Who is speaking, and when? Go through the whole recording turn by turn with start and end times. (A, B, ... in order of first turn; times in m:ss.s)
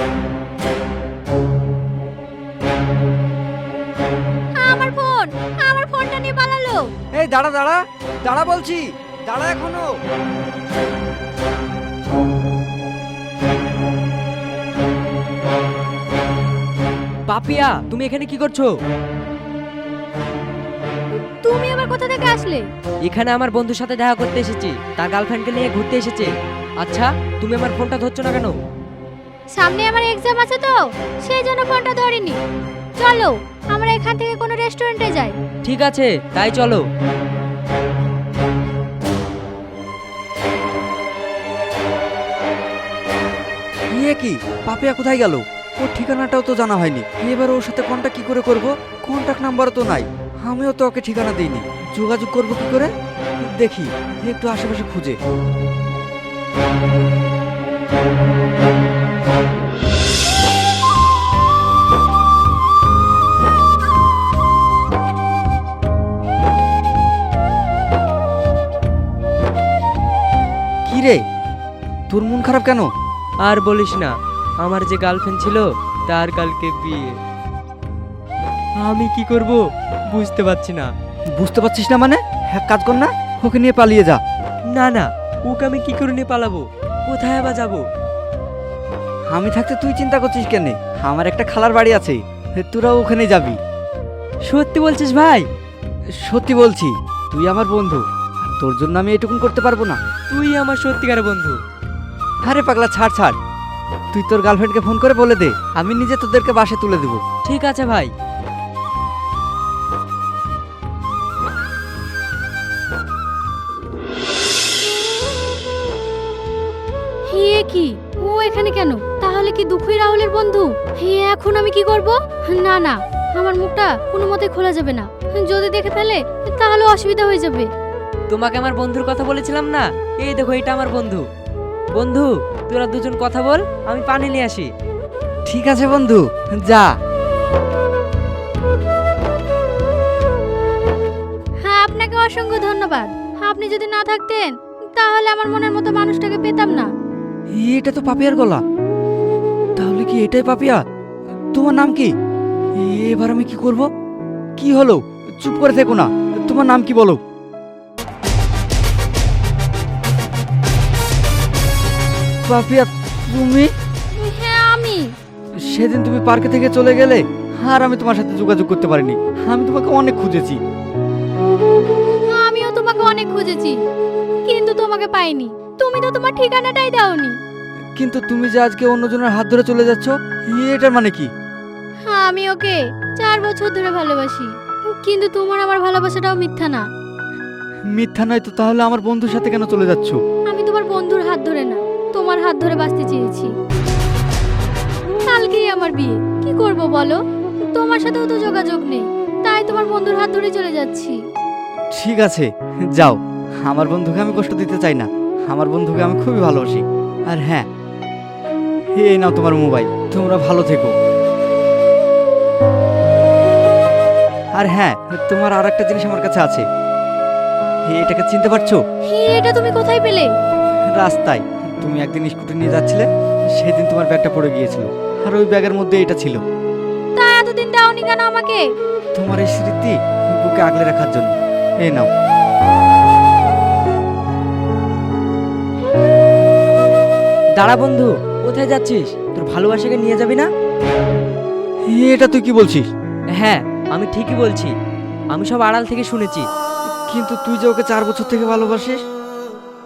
0:04.6-0:06.9 A
0:07.2-0:10.0 B
0:17.3-0:18.7 C
0:21.4-0:22.6 A
0:23.1-0:28.6 C
0:29.6-0:32.4 A
0:33.0-0:35.4 A
0:35.6-0:36.8 C
0:43.9-0:52.9 B
0:53.4-0:55.2 B
1:10.9-1:11.2 B
1:12.1-1:12.9 B
1:13.4-1:17.2 C
1:18.8-1:20.9 C
1:21.4-1:24.2 B
1:24.7-1:27.9 C
1:29.3-1:33.6 B
1:34.5-1:35.5 C
1:36.2-1:40.0 B
1:40.3-1:41.6 C
1:42.4-1:43.4 B
1:44.1-1:47.2 B
1:47.4-1:48.1 C
1:57.3-2:07.7 A
2:08.3-2:11.2 C
2:12.0-2:14.7 C
2:15.5-2:17.0 B
2:21.6-2:26.9 A
2:27.6-2:28.6 B
2:29.8-2:30.8 B
2:31.5-2:32.1 B
2:32.8-2:33.9 B
2:34.6-2:37.2 B
2:42.5-2:43.7 B
2:44.2-2:45.1 A
2:45.6-2:50.6 B
2:52.3-2:53.8 A
2:54.5-2:57.4 A
2:58.0-3:01.3 B
3:02.0-3:06.8 A
3:07.9-3:10.2 B
3:10.5-3:13.5 A
3:15.3-3:21.2 A
3:21.9-3:27.7 B
3:29.0-3:31.0 B
3:34.6-3:36.7 B
3:37.9-3:38.8 B
3:39.1-3:40.3 A
3:40.9-3:46.4 B
3:47.2-3:48.6 A
3:49.2-3:52.1 B
3:57.6-4:00.5 C
4:01.9-4:02.9 B
4:03.4-4:04.7 C
4:05.3-4:06.5 C
4:07.1-4:09.0 B